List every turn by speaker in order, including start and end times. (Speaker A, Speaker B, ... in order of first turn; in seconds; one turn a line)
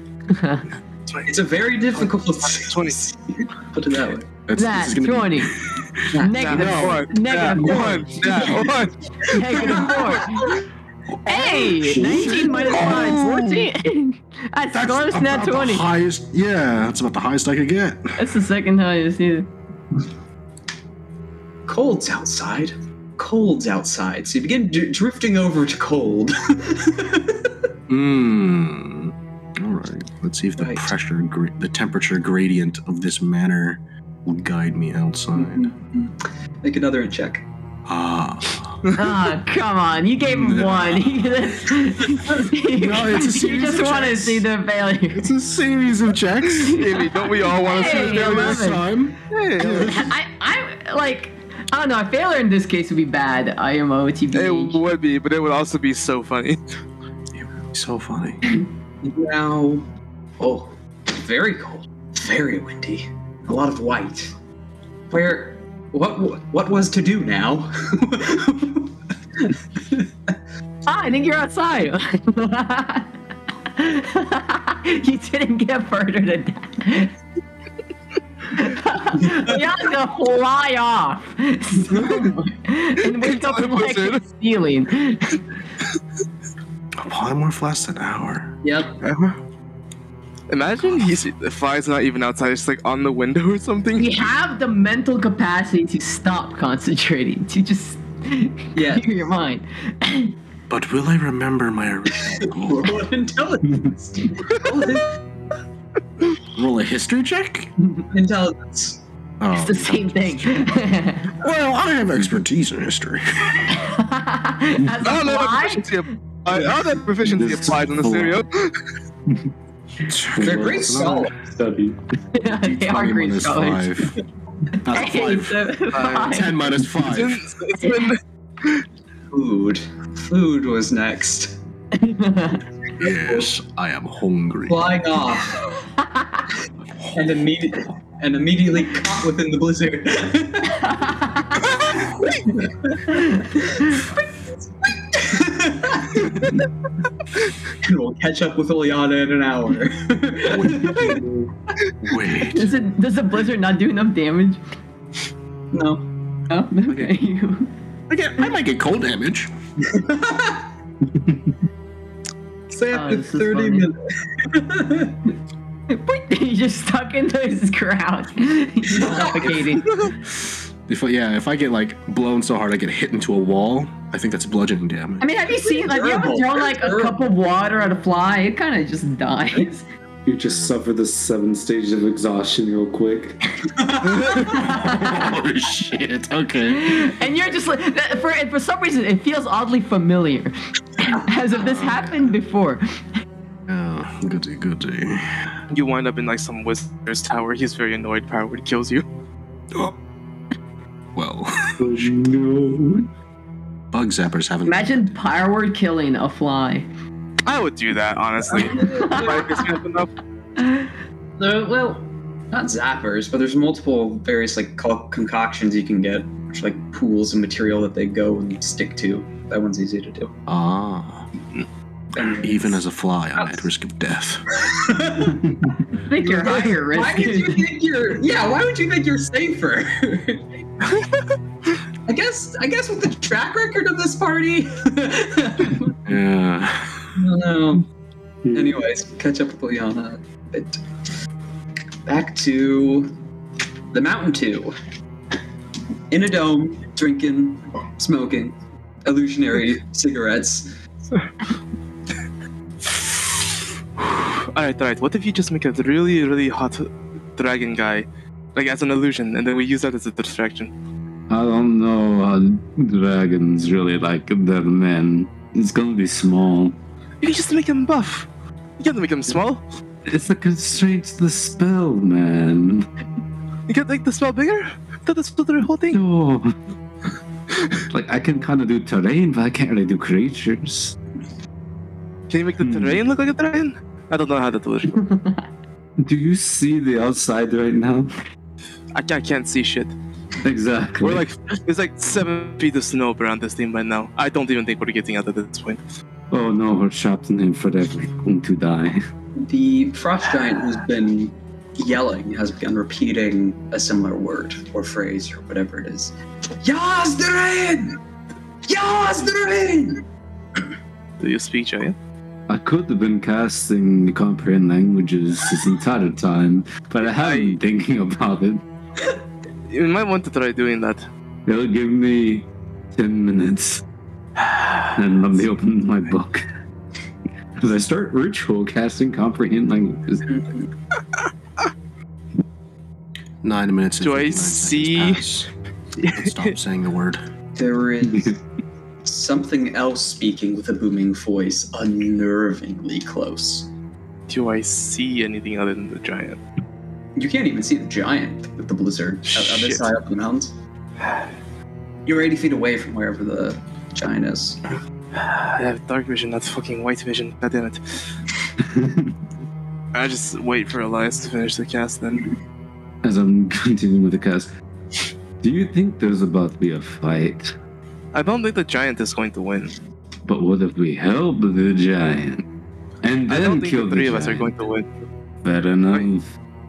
Speaker A: 0.3-0.7
Speaker B: 1.3-4.3
Speaker C: 1.9-3.0
Speaker D: 4.5-7.0
Speaker A: 4.5-5.6
Speaker B: 6.1-6.6
Speaker A: 6.1-8.6
Speaker C: 6.3-8.9
Speaker D: 7.6-8.5
Speaker B: 8.2-8.7
Speaker A: 9.2-10.6
Speaker B: 9.3-10.6
Speaker A: 11.2-15.8
Speaker D: 11.3-13.7
Speaker D: 14.7-18.2
Speaker A: 18.2-19.5
Speaker B: 21.7-27.5
Speaker D: 27.9-35.7
Speaker B: 30.6-30.9
Speaker B: 35.3-37.5
Speaker D: 37.9-38.9
Speaker A: 38.9-45.3
Speaker D: 40.3-41.4
Speaker D: 42.7-44.5
Speaker D: 45.1-50.1
Speaker A: 46.6-48.9
Speaker C: 46.6-48.6
Speaker C: 49.3-49.9
Speaker A: 49.6-54.8
Speaker C: 54.3-56.6
Speaker D: 57.3-58.4
Speaker B: 59.0-59.9
Speaker B: 60.4-64.3
Speaker B: 65.1-70.3
Speaker A: 70.8-73.1
Speaker A: 73.7-77.1
Speaker A: 78.5-85.4
Speaker C: 83.1-84.2
Speaker D: 87.0-88.5
Speaker B: 88.6-89.0
Speaker C: 89.0-89.4
Speaker C: 90.5-94.1
Speaker A: 94.0-100.3
Speaker B: 98.7-99.1
Speaker D: 100.7-103.0
Speaker B: 102.5-105.2
Speaker D: 106.5-107.7
Speaker B: 108.1-109.0
Speaker D: 109.4-110.7
Speaker A: 109.5-111.3
Speaker D: 111.4-113.7
Speaker A: 113.7-116.0
Speaker C: 115.0-118.7
Speaker E: 117.4-117.8
Speaker D: 117.9-118.4
Speaker D: 120.0-121.3
Speaker E: 120.3-122.0
Speaker B: 120.4-121.3
Speaker A: 122.3-124.1
Speaker D: 122.5-124.1
Speaker A: 124.8-126.6
Speaker D: 124.8-127.4
Speaker C: 125.9-126.4
Speaker C: 127.0-128.8
Speaker A: 127.8-128.1
Speaker B: 129.3-131.6
Speaker A: 132.0-132.6
Speaker D: 133.0-135.0
Speaker B: 133.1-133.5
Speaker B: 134.7-135.7
Speaker A: 136.0-136.4
Speaker D: 137.0-137.3
Speaker B: 137.1-141.0
Speaker A: 141.1-141.6
Speaker B: 141.8-143.3
Speaker A: 143.1-144.0
Speaker B: 144.8-146.6
Speaker B: 147.8-151.2
Speaker D: 150.5-151.3
Speaker D: 152.0-152.7
Speaker A: 152.4-154.6
Speaker B: 155.7-156.0
Speaker A: 156.5-157.7
Speaker D: 158.1-159.5
Speaker B: 159.8-160.7
Speaker E: 161.2-161.4
Speaker B: 162.7-165.2
Speaker A: 162.9-163.9
Speaker A: 165.9-170.0
Speaker B: 168.9-169.6
Speaker D: 170.9-175.3
Speaker A: 175.2-179.8
Speaker B: 175.6-177.2
Speaker E: 180.2-183.4
Speaker B: 183.7-184.6
Speaker D: 184.2-187.1
Speaker A: 184.4-185.3
Speaker A: 186.6-192.8
Speaker D: 191.5-192.3
Speaker D: 193.7-195.5
Speaker C: 195.7-199.1
Speaker D: 201.1-202.1
Speaker E: 201.8-203.1
Speaker D: 203.9-205.1
Speaker A: 204.6-206.9
Speaker C: 207.4-210.1
Speaker B: 208.5-209.6
Speaker A: 208.6-209.7
Speaker A: 210.6-210.9
Speaker B: 211.4-220.3
Speaker D: 220.5-221.3
Speaker B: 222.1-222.8
Speaker D: 222.3-224.4
Speaker B: 223.3-223.7
Speaker B: 224.6-230.5
Speaker A: 225.9-227.7
Speaker B: 232.1-236.0
Speaker D: 236.1-237.1
Speaker B: 237.2-237.8
Speaker E: 238.4-238.8
Speaker B: 238.5-240.8
Speaker B: 242.1-243.1
Speaker B: 243.9-244.7
Speaker B: 246.1-250.8
Speaker C: 254.1-260.7
Speaker E: 261.3-266.8
Speaker C: 267.2-268.3
Speaker C: 268.8-269.6
Speaker E: 270.0-272.9
Speaker C: 273.7-276.0
Speaker E: 275.9-276.5
Speaker E: 277.9-280.9
Speaker C: 282.3-285.0
Speaker E: 282.6-283.0
Speaker A: 285.0-285.4
Speaker E: 286.0-288.1
Speaker C: 288.9-289.9
Speaker E: 290.4-291.2
Speaker C: 291.0-295.8
Speaker E: 296.3-299.0
Speaker B: 299.4-308.0
Speaker B: 308.6-310.0
Speaker C: 311.2-311.9
Speaker E: 312.5-318.6
Speaker C: 317.0-317.6
Speaker C: 319.7-321.1
Speaker E: 321.4-323.8
Speaker C: 324.4-324.8
Speaker E: 324.9-326.5
Speaker E: 327.6-330.3
Speaker B: 330.3-330.7
Speaker D: 333.4-335.5
Speaker C: 334.0-335.2
Speaker C: 336.0-336.5
Speaker D: 336.1-337.2
Speaker B: 337.6-338.4
Speaker B: 339.0-343.7
Speaker C: 344.3-346.4
Speaker B: 347.1-350.5
Speaker C: 349.3-349.8
Speaker B: 352.1-354.6
Speaker C: 355.1-358.0
Speaker E: 358.6-359.1
Speaker C: 359.9-362.3
Speaker E: 363.0-364.5
Speaker E: 365.4-367.5
Speaker C: 368.1-369.7
Speaker E: 370.2-372.4
Speaker E: 373.0-374.5
Speaker C: 373.3-374.9
Speaker E: 375.4-376.3